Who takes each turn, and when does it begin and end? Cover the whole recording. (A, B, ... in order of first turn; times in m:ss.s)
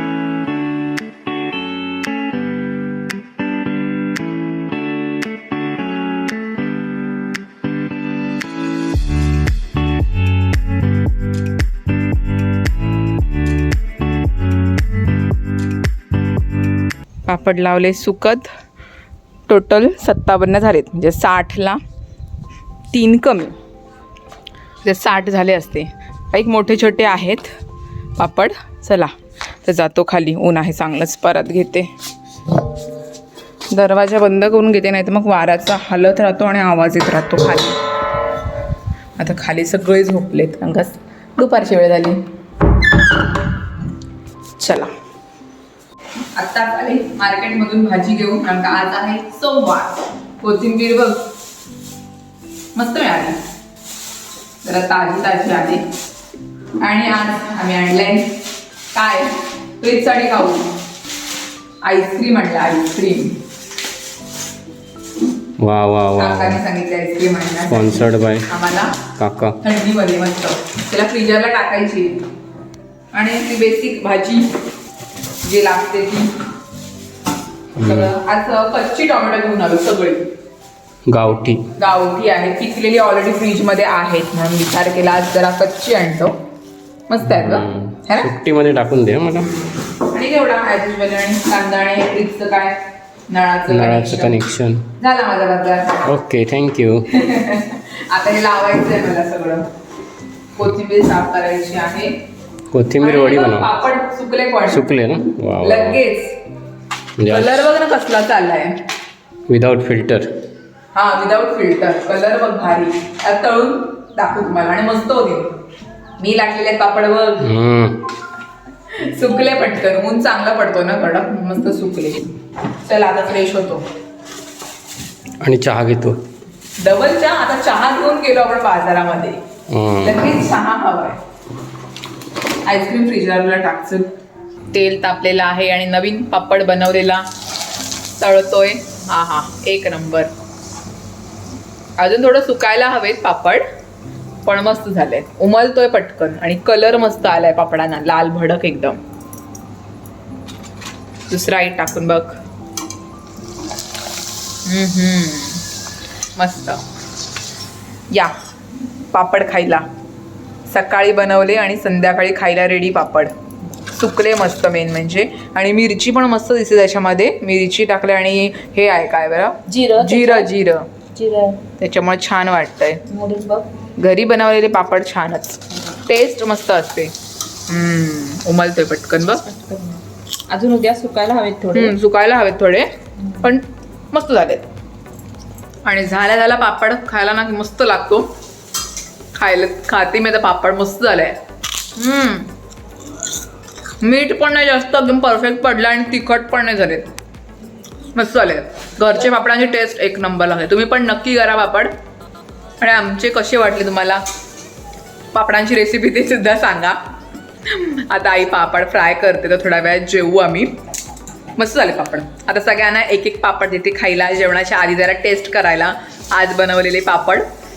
0:17.3-0:18.5 A
0:19.5-0:21.8 A
0:22.9-0:23.6 A
0:24.8-0:27.5 A
0:28.2-0:29.1 A
0:29.6-0:31.9 A
0:33.7-0:37.8 A
0:39.2-0:42.2 A
0:44.6-0:44.9 A
0:46.3-0:51.2 A
0:52.7-0:53.4 A
0:54.6-0:55.8 A
0:56.8-0:58.4 A
0:58.9-1:00.7 A
1:01.8-1:03.4 A
1:05.6-1:06.6 B
1:06.2-1:08.9 A
1:07.7-1:08.5 B
1:09.2-1:09.6 B
1:09.6-1:12.1 A
1:13.1-1:14.5 A
1:15.4-1:16.3 A
1:17.8-1:18.1 B
1:17.8-1:20.3 A
1:21.1-1:21.7 B
1:21.8-1:26.4 A
1:27.1-1:28.3 A
1:27.2-1:29.5 B
1:29.4-1:32.8 A
1:33.3-1:34.4 A
1:33.7-1:34.8 B
1:35.0-1:36.1 A
1:36.0-1:37.1 B
1:37.1-1:39.7 A
1:40.6-1:42.1 A
1:42.7-1:43.7 B
1:43.0-1:44.8 A
1:44.7-1:46.0 B
1:45.6-1:46.4 A
1:47.2-1:47.6 B
1:47.3-1:48.8 A
1:49.5-1:50.3 B
1:50.9-1:55.5 A
1:56.2-1:57.5 A
1:57.4-1:58.0 B
1:58.9-2:03.8 A
2:05.4-2:06.2 B
2:06.8-2:09.4 A
2:09.7-2:10.3 B
2:10.0-2:11.2 A
2:12.6-2:14.1 A
2:14.7-2:17.2 A
2:18.2-2:20.3 A
2:22.0-2:23.6 A
2:24.4-2:29.0 A
2:31.3-2:32.4 A
2:34.6-2:35.6 A
2:36.4-2:36.8 A
2:39.1-2:39.8 A
2:40.7-2:43.3 A
2:43.9-2:50.9 A
2:49.7-2:50.5 C
2:51.1-2:51.6 C
2:51.8-2:53.0 A
2:53.1-2:53.7 C
2:54.0-2:57.1 A
2:57.7-2:59.4 A
2:59.4-3:01.9 C
3:01.7-3:02.9 A
3:03.2-3:03.5 C
3:03.4-3:04.7 A
3:05.8-3:08.3 A
3:09.3-3:11.4 A
3:12.0-3:12.5 A
3:14.0-3:17.1 A
3:18.1-3:21.9 A
3:22.8-3:24.2 A
3:25.3-3:27.0 A
3:27.6-3:30.7 A
3:31.6-3:37.4 A